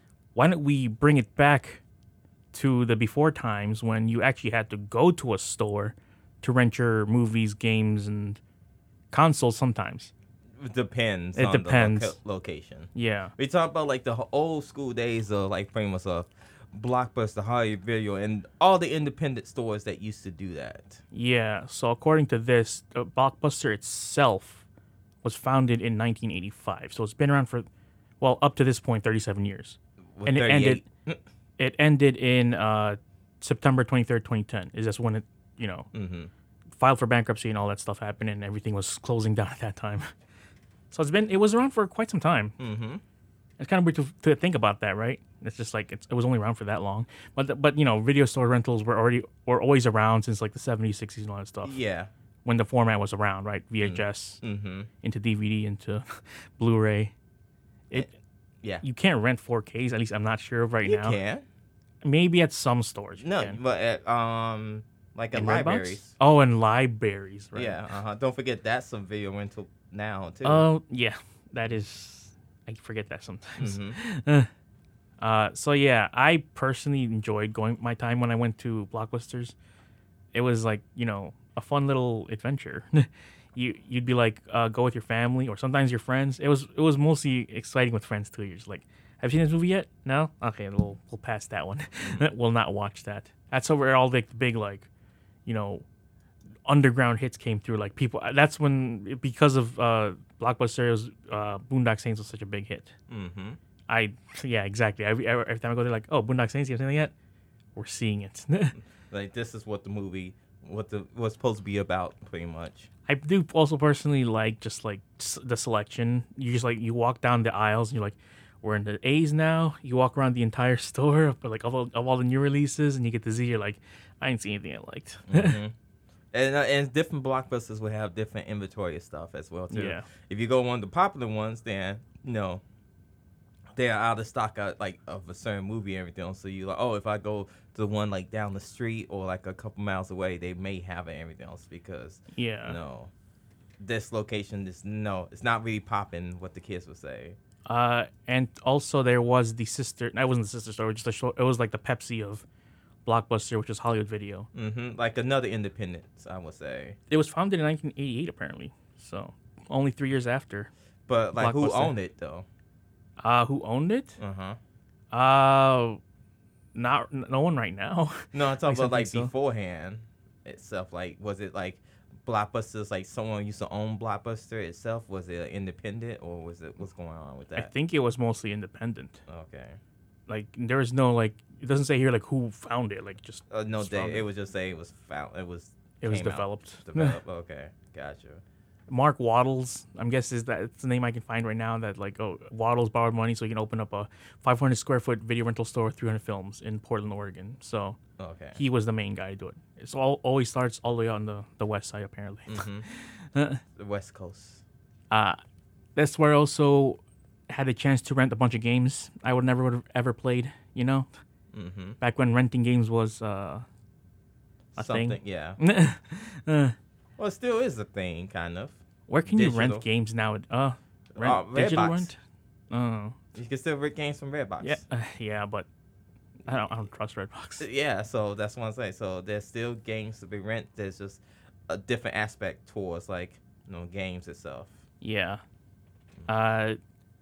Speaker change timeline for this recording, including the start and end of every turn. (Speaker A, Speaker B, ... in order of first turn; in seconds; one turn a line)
Speaker A: 0.3-1.8
Speaker A: 2.5-8.4
Speaker A: 9.1-10.1
Speaker B: 10.6-21.0
Speaker A: 11.3-12.2
Speaker A: 12.9-13.3
Speaker A: 21.1-24.6
Speaker A: 25.2-27.7
Speaker A: 28.2-30.9
Speaker B: 30.2-31.2
Speaker A: 31.6-35.9
Speaker B: 35.9-36.3
Speaker A: 36.8-40.1
Speaker A: 40.9-42.5
Speaker B: 42.6-43.0
Speaker A: 43.6-51.8
Speaker B: 51.6-52.1
Speaker A: 52.5-54.4
Speaker B: 53.8-54.9
Speaker A: 55.0-57.1
Speaker A: 57.9-58.1
Speaker A: 58.8-61.2
Speaker B: 60.8-61.5
Speaker A: 62.0-63.6
Speaker B: 63.2-66.2
Speaker A: 65.3-68.0
Speaker B: 67.5-70.7
Speaker A: 70.4-74.5
Speaker B: 73.6-74.0
Speaker A: 75.2-79.6
Speaker A: 80.3-94.9
Speaker B: 92.0-92.3
Speaker A: 95.5-95.8
Speaker A: 96.7-102.9
Speaker B: 103.1-103.6
Speaker A: 103.9-107.1
Speaker A: 107.8-108.8
Speaker B: 108.8-112.9
Speaker A: 113.1-125.6
Speaker B: 125.3-125.8
Speaker B: 126.3-132.6
Speaker A: 129.7-130.1
Speaker B: 133.8-143.1
Speaker A: 142.3-142.8
Speaker B: 143.8-147.4
Speaker A: 147.7-152.4
Speaker A: 153.1-154.5
Speaker B: 154.5-157.0
Speaker A: 157.1-160.7
Speaker B: 161.1-162.5
Speaker A: 161.4-161.9
Speaker A: 163.2-164.2
Speaker B: 164.2-164.6
Speaker A: 165.1-166.0
Speaker A: 166.8-169.3
Speaker B: 168.3-177.7
Speaker A: 177.6-179.2
Speaker B: 179.3-179.8
Speaker A: 180.3-184.3
Speaker B: 183.5-188.4
Speaker A: 186.0-187.2
Speaker A: 188.9-198.0
Speaker B: 198.2-198.6
Speaker A: 198.6-203.6
Speaker B: 202.5-202.9
Speaker B: 203.8-204.6
Speaker A: 205.1-205.4
Speaker A: 206.0-211.1
Speaker B: 211.5-212.0
Speaker A: 212.0-213.6
Speaker A: 214.8-216.8
Speaker B: 214.8-215.6
Speaker B: 217.2-219.9
Speaker A: 219.1-222.2
Speaker B: 221.1-222.1
Speaker A: 222.7-223.2
Speaker B: 223.3-224.8
Speaker A: 224.6-225.7
Speaker A: 226.4-227.7
Speaker B: 226.5-226.7
Speaker B: 227.6-234.8
Speaker A: 235.0-235.4
Speaker A: 236.3-236.8